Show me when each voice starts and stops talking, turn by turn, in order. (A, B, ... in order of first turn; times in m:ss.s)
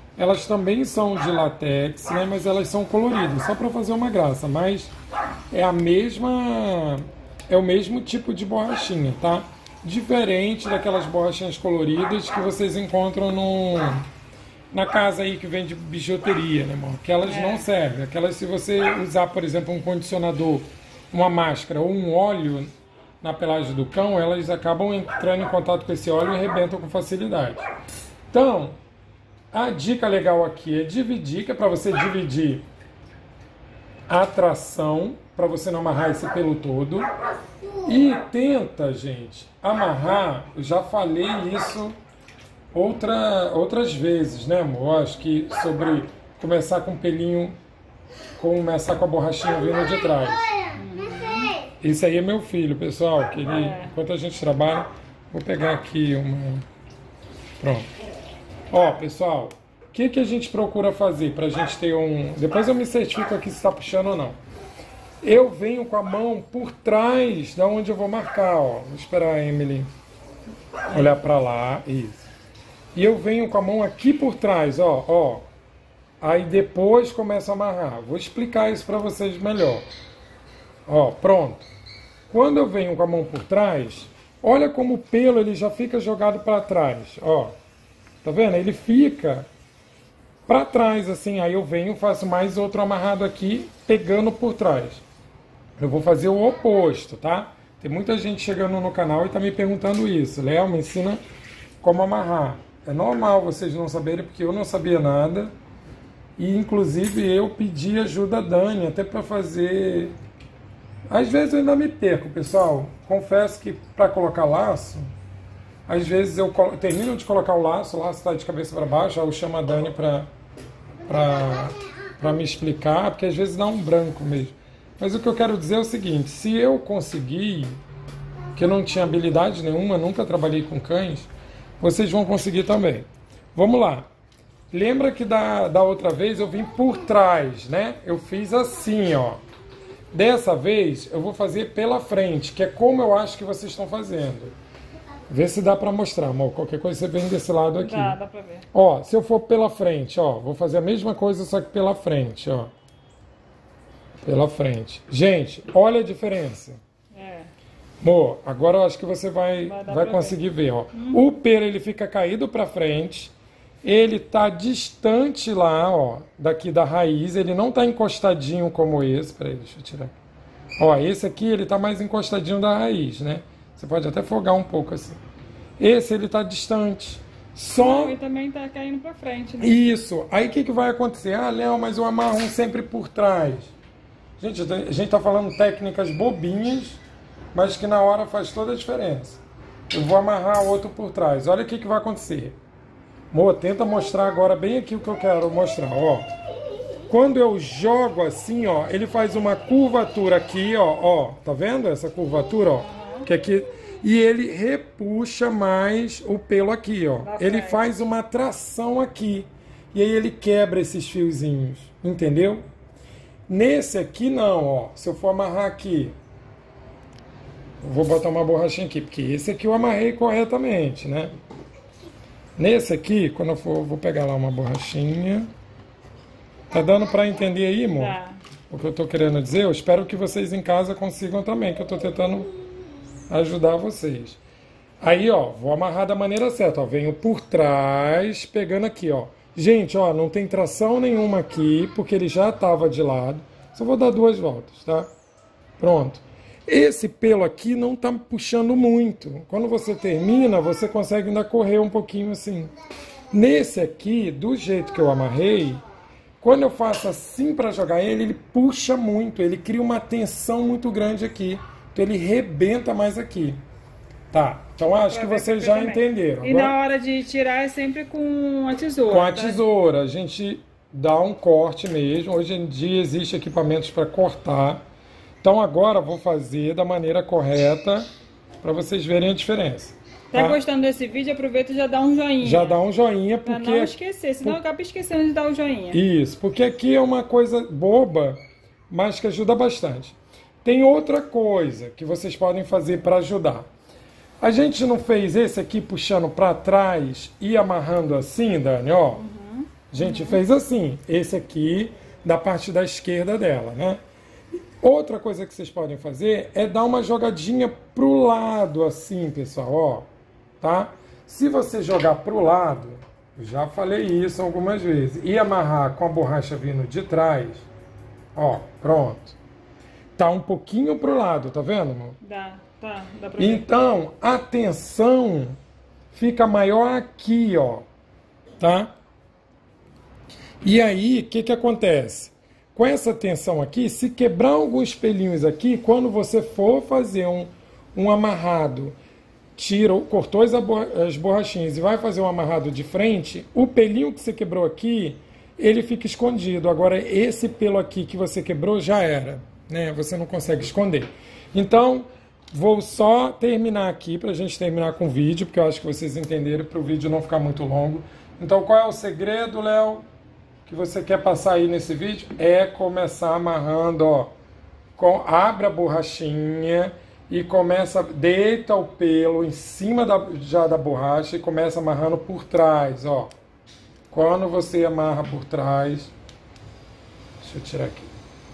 0:00.2-0:04.9 A
0:05.5-0:14.0 A
0:14.7-0:22.7 A
0:17.2-0:17.6 B
0:23.2-0:27.6 A
0:28.3-0:28.8 A
0:29.5-0:32.6 A
0:34.1-0:37.1 A
0:37.8-0:42.0 A
0:42.7-0:47.6 A
0:48.4-0:50.5 A
0:50.8-0:51.5 B
0:51.8-0:56.6 A
0:53.4-0:53.9 B
0:57.6-0:57.9 A
0:58.7-1:04.4 A
1:05.2-1:09.9 A
1:10.9-1:12.3 A
1:12.9-1:15.4 A
1:16.2-1:19.8 A
1:20.9-1:21.7 A
1:22.3-1:27.5 A
1:28.2-1:29.5 A
1:30.5-1:35.0 A
1:35.8-1:41.2 A
1:41.8-1:45.5 A
1:46.4-1:50.1 A
1:51.1-1:55.1 A
1:55.9-2:00.3 A
2:01.1-2:07.8 A
2:08.6-2:14.1 A
2:14.7-2:19.4 A
2:20.1-2:24.5 A
2:25.3-2:28.2 A
2:27.8-2:28.6 B
2:28.7-2:32.7 A
2:34.2-2:36.8 A
2:37.1-2:37.5 B
2:38.0-2:43.3 A
2:39.6-2:40.4 B
2:40.9-2:41.2 B
2:43.8-2:50.2 A
2:50.8-2:55.2 A
2:55.8-2:58.2 A
2:57.8-2:59.8 B
2:59.6-3:03.7 A
3:04.4-3:07.0 A
3:07.5-3:12.6 A
3:13.3-3:16.2 A
3:17.1-3:32.6 A
3:22.9-3:23.3 B
3:27.2-3:27.8 B
3:33.5-3:36.1 A
3:37.8-3:41.3 A
3:42.6-3:45.5 A
3:46.7-3:48.2 A
3:48.0-3:48.4 B
3:48.7-3:52.5 A
3:53.3-3:54.4 A
3:55.0-4:05.1 A
4:05.8-4:12.7 A
4:13.3-4:15.8 A
4:16.4-4:23.6 A
4:24.3-4:26.7 A
4:24.9-4:29.6 B
4:29.1-4:34.8 A
4:35.4-4:38.1 A
4:38.6-4:40.6 A
4:40.3-4:42.8 B
4:42.4-4:44.6 A
4:43.4-4:46.0 B
4:45.9-4:53.7 A
4:54.4-4:59.2 A
4:59.2-5:00.4 B
4:59.9-5:04.0 A
5:04.8-5:10.1 A
5:10.6-5:17.7 A
5:18.3-5:19.4 A
5:20.2-5:22.2 A
5:22.2-5:23.7 B
5:23.4-5:25.6 A
5:26.1-5:27.9 A
5:28.6-5:28.9 A
5:30.6-5:39.0 A
5:39.6-6:00.0 A
6:00.6-6:04.3 A
6:05.0-6:13.3 A
6:14.1-6:16.1 A
6:17.4-6:18.1 A